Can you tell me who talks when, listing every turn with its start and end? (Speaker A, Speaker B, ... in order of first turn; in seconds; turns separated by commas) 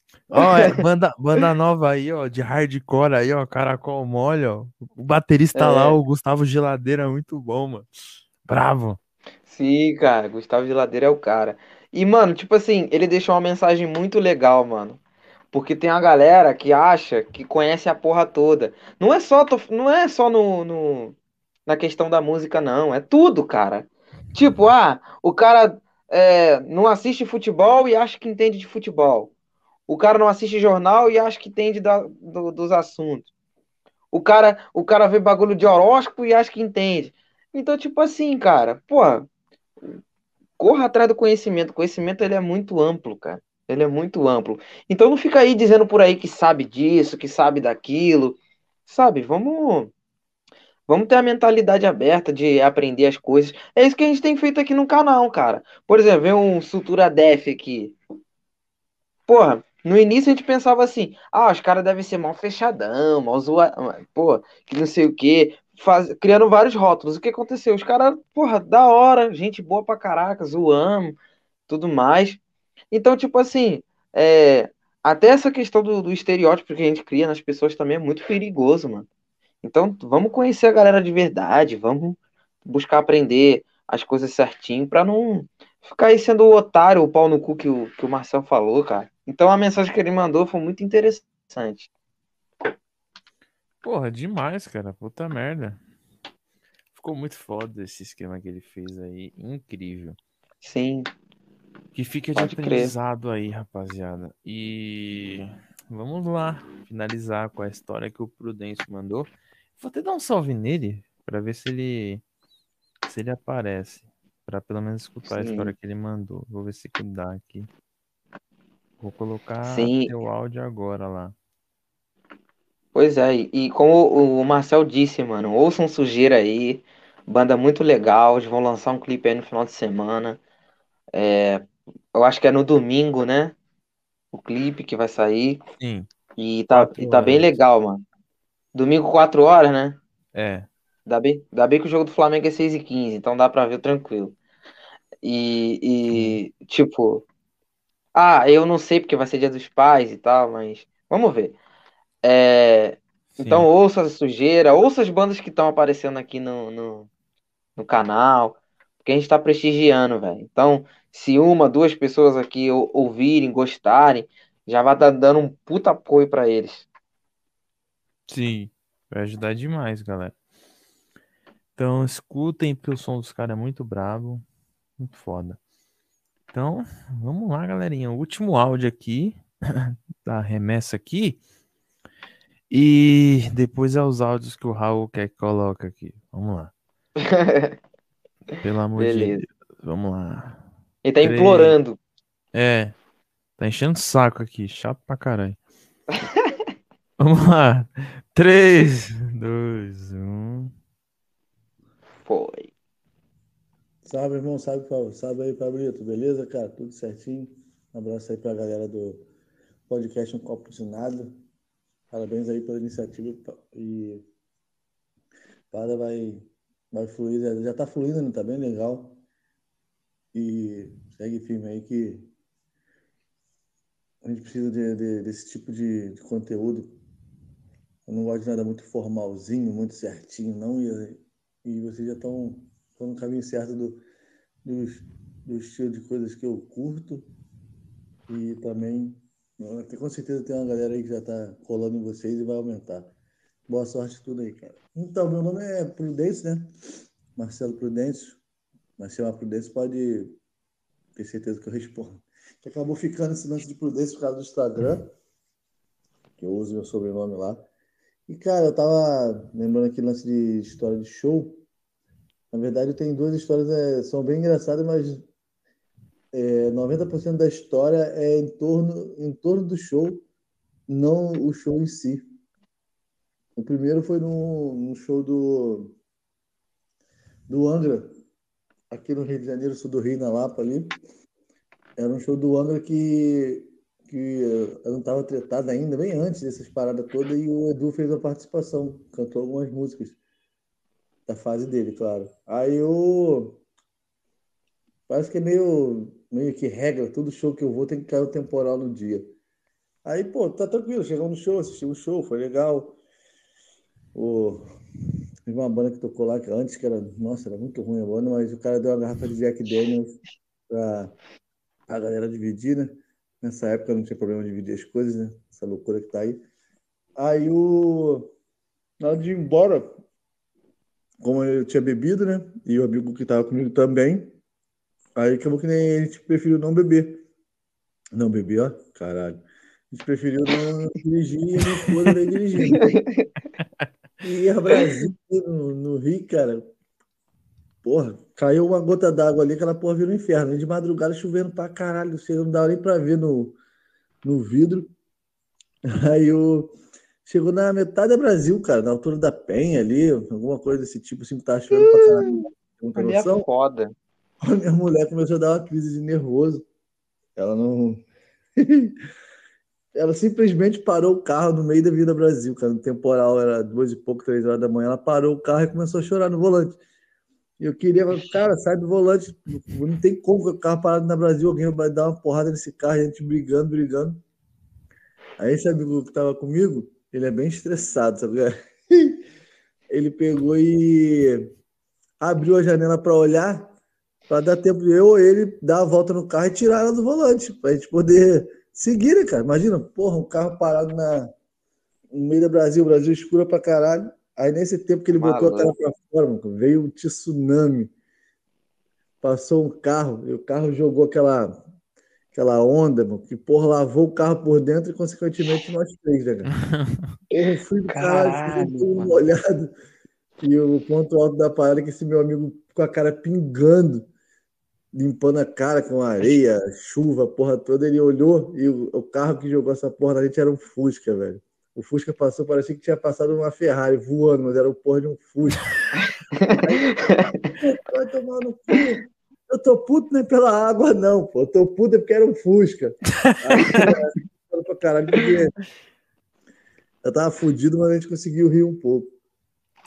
Speaker A: 0.3-7.9, Speaker B: 0.4-0.8, Speaker B: 5.5-6.0, Speaker A: 8.5-9.0, Speaker B: 9.5-15.0, Speaker B: 15.5-21.2, Speaker B: 21.7-29.3, Speaker B: 29.9-33.3, Speaker B: 34.1-39.3, Speaker B: 40.6-49.9, Speaker B: 50.9-58.0, Speaker B: 59.3-71.2, Speaker B: 71.7-72.4, Speaker B: 72.9-79.1, Speaker B: 79.6-91.9, Speaker A: 93.8-95.8, Speaker A: 97.0-100.2, Speaker B: 100.6-101.1, Speaker A: 101.9-112.2, Speaker B: 102.4-102.9, Speaker A: 113.0-117.7, Speaker B: 115.3-115.7, Speaker A: 119.0-121.3, Speaker B: 119.6-120.1, Speaker B: 123.0-130.4, Speaker B: 131.2-133.6, Speaker B: 134.3-135.6, Speaker A: 135.8-136.1, Speaker B: 136.4-138.0, Speaker A: 136.7-137.6, Speaker B: 138.8-140.0, Speaker A: 140.3-140.7, Speaker B: 141.1-144.3, Speaker B: 145.2-147.2, Speaker A: 146.1-146.4, Speaker B: 148.2-151.6, Speaker B: 152.2-157.1, Speaker A: 153.4-153.7, Speaker B: 157.8-166.9, Speaker A: 168.3-170.3, Speaker A: 171.8-174.4, Speaker A: 175.0-175.6, Speaker A: 176.5-181.4, Speaker A: 182.7-186.7, Speaker B: 187.2-187.8, Speaker A: 188.6-190.6, Speaker B: 189.0-189.4, Speaker B: 191.0-192.0, Speaker A: 191.2-191.8, Speaker A: 192.5-192.9, Speaker A: 193.6-195.6, Speaker A: 197.2-200.7, Speaker B: 202.2-202.7, Speaker C: 204.1-209.2, Speaker C: 209.9-211.3, Speaker C: 212.1-214.2, Speaker C: 215.7-219.2, Speaker C: 220.3-222.3, Speaker C: 224.2-226.9, Speaker C: 228.1-234.0, Speaker C: 234.7-237.3, Speaker C: 238.3-243.1, Speaker C: 243.7-246.7, Speaker C: 247.4-248.4, Speaker C: 249.0-250.4, Speaker C: 251.2-255.1, Speaker C: 256.4-257.7, Speaker C: 258.3-261.6, Speaker C: 262.5-265.2, Speaker C: 266.3-270.2, Speaker C: 270.9-272.2, Speaker C: 273.6-275.9, Speaker C: 277.5-278.1, Speaker C: 278.9-281.0, Speaker C: 282.0-290.2, Speaker C: 291.3-293.6, Speaker C: 295.1-299.3, Speaker C: 300.1-303.0, Speaker C: 304.1-304.7, Speaker C: 305.5-311.1, Speaker C: 311.9-316.4, Speaker C: 317.2-318.3, Speaker C: 319.0-319.9, Speaker C: 321.2-324.3, Speaker C: 325.2-327.2, Speaker C: 328.2-333.0, Speaker B: 332.6-333.3, Speaker C: 334.2-336.6, Speaker C: 337.8-343.6, Speaker C: 344.2-344.9, Speaker C: 346.0-346.8, Speaker C: 347.3-353.5, Speaker B: 351.7-352.4, Speaker B: 352.9-353.9, Speaker C: 354.4-356.6, Speaker C: 357.4-358.0, Speaker C: 358.6-358.9, Speaker C: 359.9-366.8, Speaker C: 367.6-374.2, Speaker B: 368.1-368.4, Speaker C: 375.4-379.2, Speaker C: 379.9-381.5, Speaker C: 382.2-383.7, Speaker C: 384.3-391.3, Speaker C: 392.1-397.9, Speaker B: 395.1-395.7, Speaker C: 399.2-401.6, Speaker C: 402.3-406.5, Speaker A: 406.6-407.0, Speaker B: 407.3-409.2, Speaker C: 407.4-409.7, Speaker C: 410.4-414.1, Speaker C: 414.9-425.7, Speaker B: 426.4-427.5, Speaker C: 426.6-435.6, Speaker A: 433.2-433.8, Speaker B: 433.6-433.9, Speaker C: 437.0-439.1